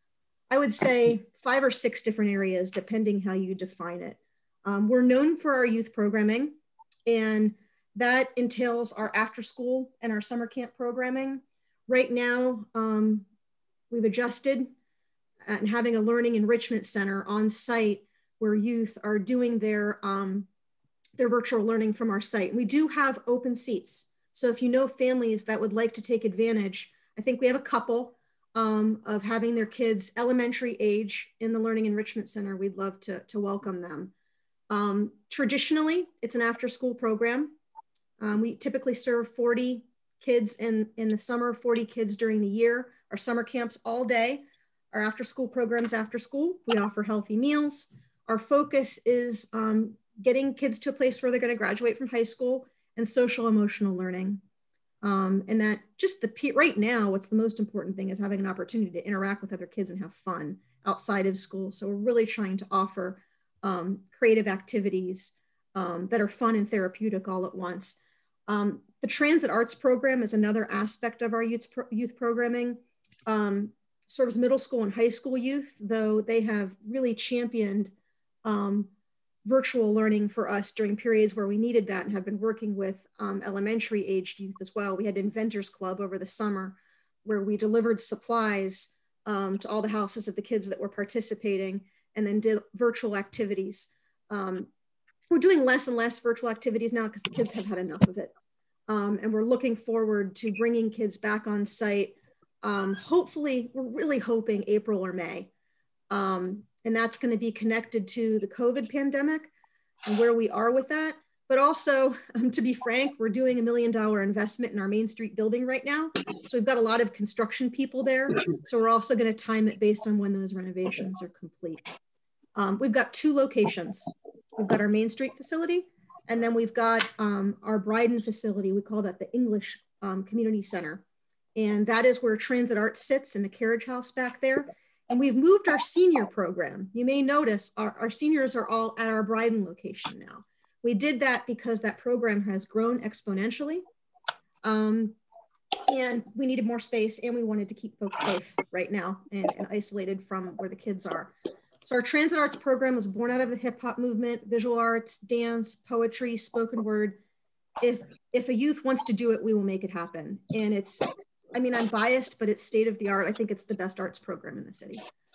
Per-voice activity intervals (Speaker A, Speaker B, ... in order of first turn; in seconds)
Speaker A: 0.5-13.2, 13.9-14.7, 15.5-20.5, 21.2-34.1, 34.7-37.5, 38.2-54.4, 55.0-77.9, 78.4-78.9, 79.5-94.7, 95.3-98.3, 98.9-105.5, 106.1-109.5, 110.0-121.8, 122.5-131.0, 131.6-143.8, 144.6-145.2, 145.9-151.3, 151.8-157.2, 157.8-165.0